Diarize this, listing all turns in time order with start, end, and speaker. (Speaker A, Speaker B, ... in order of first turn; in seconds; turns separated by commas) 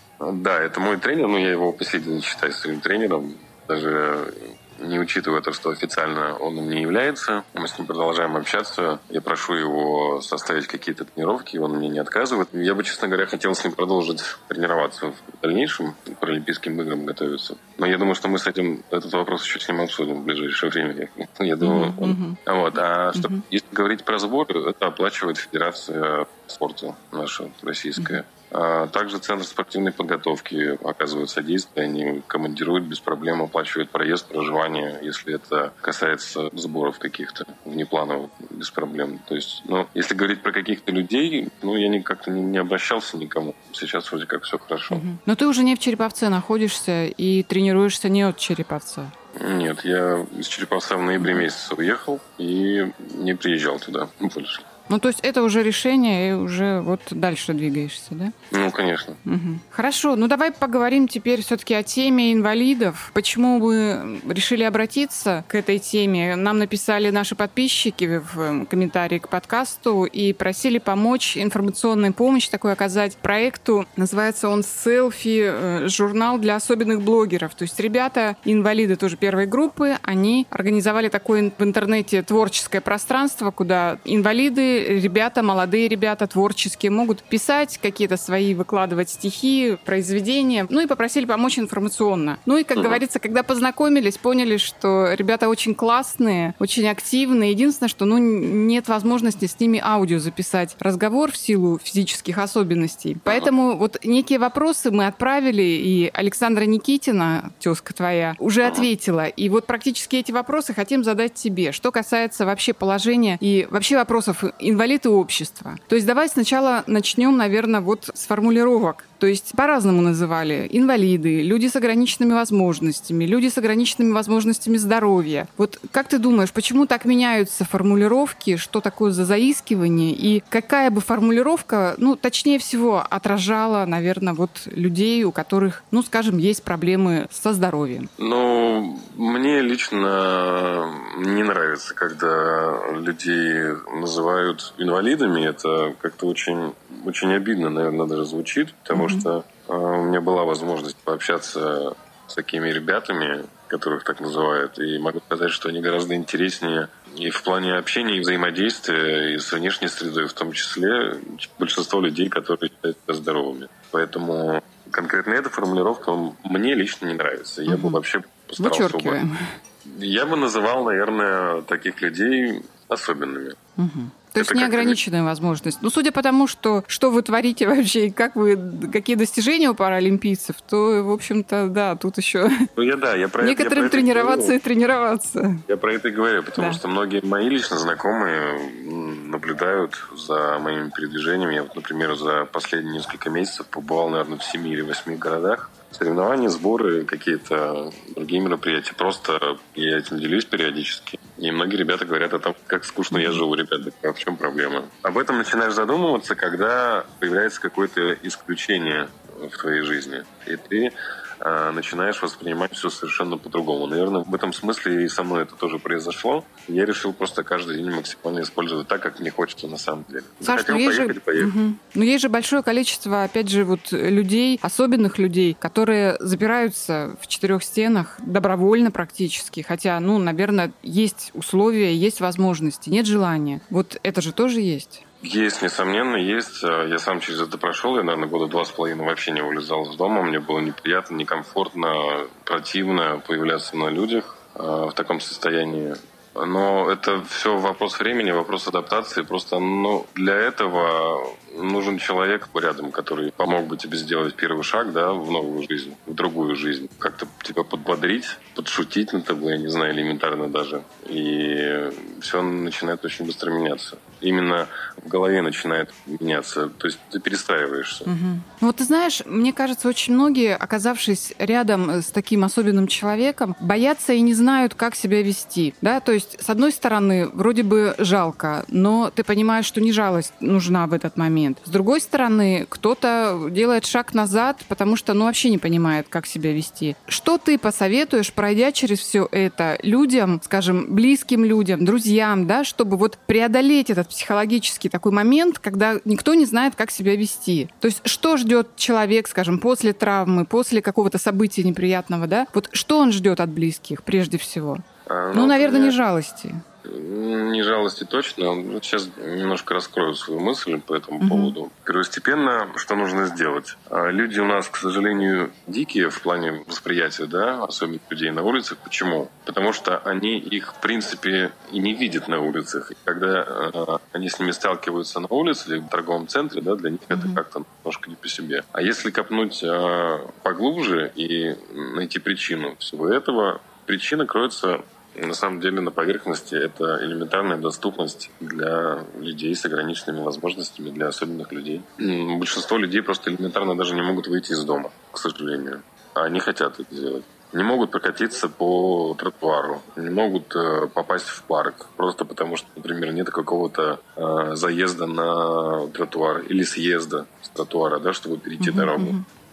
Speaker A: 0.2-45.0, Speaker B: 21.6-22.4, Speaker B: 23.1-23.4, Speaker B: 44.9-49.1, Speaker A: 49.4-54.6, Speaker B: 51.2-51.5, Speaker B: 54.9-58.3, Speaker A: 58.5-59.2, Speaker B: 59.2-138.1, Speaker A: 92.8-93.0, Speaker A: 138.2-169.2, Speaker B: 148.9-149.3, Speaker B: 167.7-168.0, Speaker B: 168.6-169.5, Speaker A: 169.8-173.6, Speaker B: 173.8-182.6, Speaker A: 174.4-175.0, Speaker A: 182.8-184.6, Speaker B: 183.4-185.6, Speaker A: 185.7-221.5, Speaker B: 186.6-186.8, Speaker B: 203.1-203.4, Speaker B: 220.4-235.0, Speaker A: 235.2-268.1, Speaker B: 268.1-306.6, Speaker A: 305.1-306.0, Speaker A: 306.9-359.2, Speaker B: 311.2-311.6, Speaker B: 327.1-327.4, Speaker B: 358.6-359.2